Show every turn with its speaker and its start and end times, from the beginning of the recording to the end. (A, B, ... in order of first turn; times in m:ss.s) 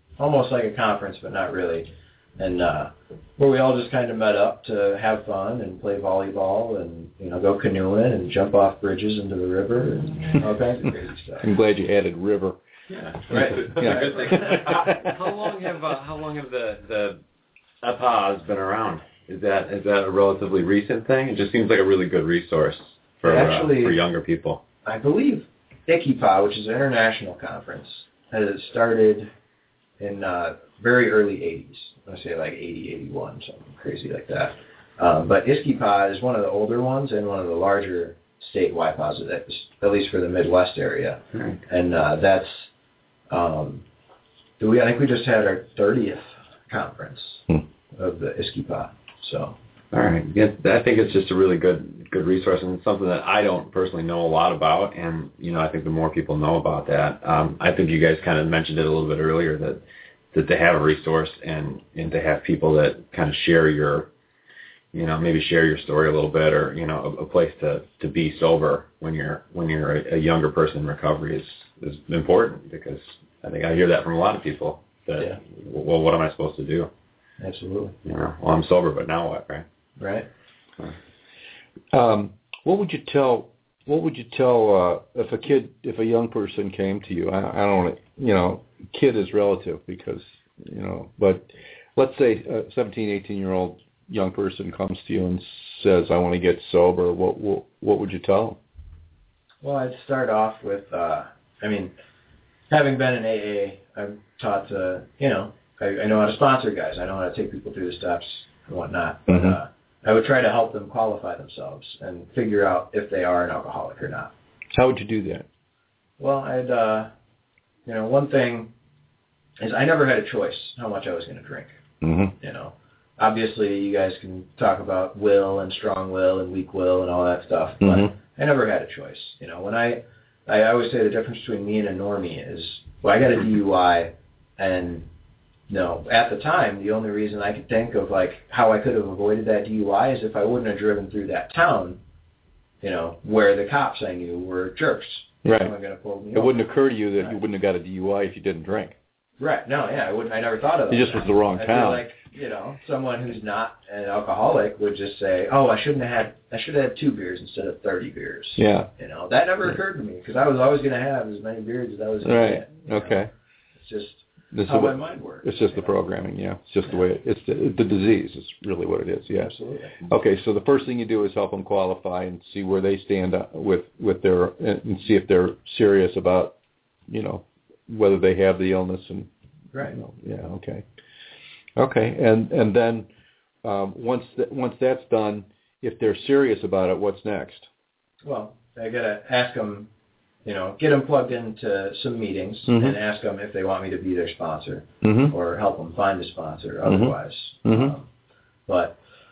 0:00.2-0:11.5 A
0:11.4-0:12.6 B
0:12.9-0:17.2 C
0:13.3-0:14.7 A
0:13.3-0:15.3 B
0:17.8-0:24.6 C
0:23.2-0:24.0 A
0:24.8-0:29.3 A
0:30.0-0:42.7 A
0:41.3-0:41.6 C
0:43.3-0:43.8 A
0:44.6-0:49.6 A
0:49.9-0:59.8 C
1:00.3-1:04.1 C
1:04.9-1:16.9 C
1:17.4-1:18.0 A
1:18.0-1:19.6 C
1:20.0-1:20.3 A
1:21.9-1:38.6 B
1:39.6-1:41.9 A
1:42.7-1:54.3 A
1:49.3-1:49.6 B
1:54.7-1:55.4 B
1:56.2-1:57.1 A
1:57.8-1:58.7 A
1:59.6-2:01.7 A
2:02.0-2:02.3 B
2:02.4-2:15.1 A
2:07.8-2:08.1 B
2:15.7-2:22.0 A
2:22.8-2:26.6 A
2:25.4-2:25.7 B
2:26.3-2:29.0 B
2:29.4-2:43.2 A
2:30.9-2:32.0 B
2:38.6-2:38.9 B
2:42.2-2:43.3 B
2:43.8-2:45.9 A
2:44.5-2:49.5 B
2:49.3-2:50.0 A
2:50.0-2:56.5 B
2:57.1-2:59.3 B
2:59.8-3:00.8 B
3:01.8-3:03.1 B
3:03.6-3:07.7 B
3:08.2-3:09.9 A
3:10.4-3:18.1 A
3:12.7-3:13.0 B
3:15.0-3:15.3 B
3:16.8-3:17.9 B
3:18.7-3:19.0 A